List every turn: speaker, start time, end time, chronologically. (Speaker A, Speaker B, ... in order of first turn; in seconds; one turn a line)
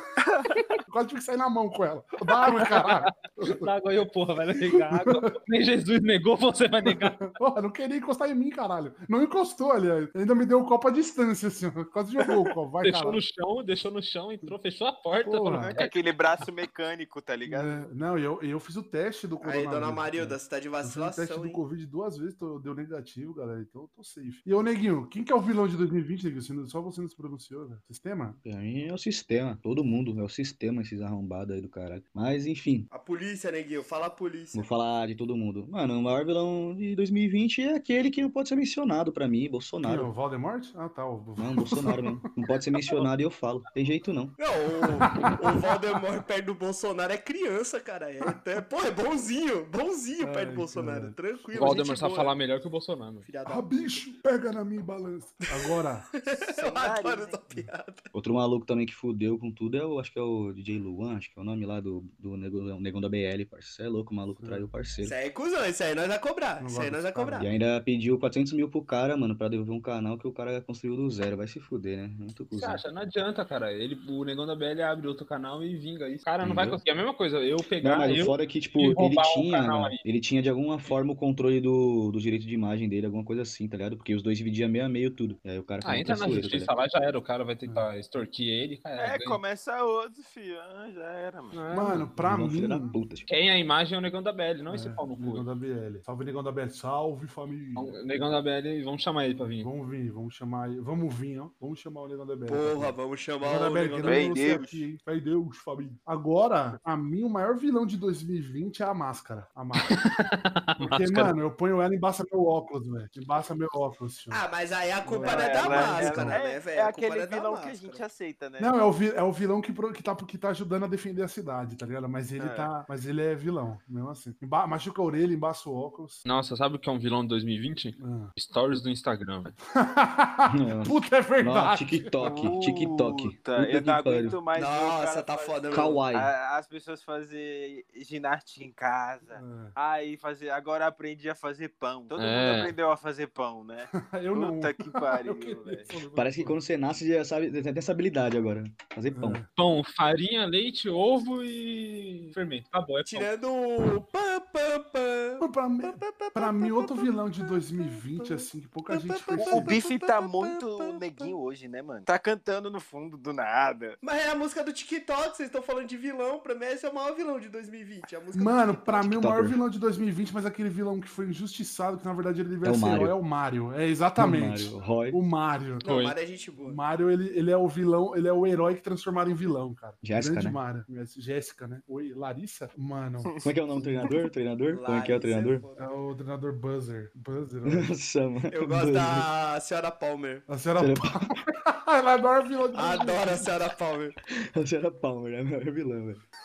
Speaker A: 0.2-0.5
Speaker B: 0.8-3.7
Speaker C: 2.4-7.2
Speaker B: 4.6-5.3
Speaker B: 6.9-13.2
Speaker C: 12.8-16.0
Speaker B: 15.2-15.7
Speaker A: 15.6-17.9
Speaker B: 17.4-28.4
Speaker D: 19.4-21.6
Speaker E: 28.4-32.9
Speaker D: 32.9-34.6
Speaker E: 34.5-40.1
Speaker B: 39.8-42.2
Speaker E: 41.4-44.4
Speaker D: 44.4-52.4
Speaker B: 44.8-45.9
Speaker B: 50.2-51.1
Speaker C: 51.5-53.2
Speaker D: 53.2-54.0
Speaker B: 53.4-56.1
Speaker D: 55.5-58.0
Speaker A: 56.6-57.4
Speaker E: 58.1-65.2
Speaker B: 64.4-64.7
Speaker D: 65.0-67.5
Speaker B: 66.6-67.5
Speaker E: 67.4-72.8
Speaker C: 72.5-80.0
Speaker E: 76.4-76.8
Speaker E: 77.8-86.7
Speaker C: 85.8-89.4
Speaker A: 89.0-91.5
Speaker C: 91.5-92.0
Speaker B: 91.7-93.0
Speaker E: 92.1-93.3
Speaker C: 93.3-95.4
Speaker B: 94.7-97.9
Speaker C: 97.8-99.7
Speaker B: 99.6-110.0
Speaker D: 102.5-104.6
Speaker A: 104.0-104.8
Speaker C: 109.8-111.3
Speaker B: 110.8-114.4
Speaker D: 114.3-118.0
Speaker B: 115.0-116.4
Speaker A: 115.2-118.8
Speaker B: 118.6-126.2
Speaker A: 122.4-122.7
Speaker C: 126.2-129.5
Speaker B: 128.0-128.3
Speaker B: 129.8-132.2
Speaker E: 130.5-134.4
Speaker A: 132.2-146.0
Speaker D: 134.5-136.0
Speaker E: 135.7-136.3
Speaker B: 139.3-139.7
Speaker C: 142.2-142.7
Speaker B: 143.9-146.6
Speaker E: 146.1-149.4
Speaker B: 149.1-149.5
Speaker C: 149.6-153.3
Speaker D: 153.1-161.3
Speaker B: 155.4-159.8
Speaker A: 159.4-164.0
Speaker D: 164.0-169.1
Speaker B: 168.3-175.9
Speaker E: 169.1-169.6
Speaker E: 172.6-173.2
Speaker E: 174.2-175.2
Speaker D: 175.8-176.8
Speaker C: 175.8-176.2
Speaker B: 176.6-184.1
Speaker E: 180.0-180.6
Speaker E: 183.4-185.6
Speaker D: 184.7-185.8
Speaker B: 185.8-187.9
Speaker E: 187.6-189.3
Speaker D: 188.5-190.4
Speaker B: 190.5-193.5
Speaker E: 190.8-191.4
Speaker D: 192.7-194.2
Speaker E: 194.2-196.2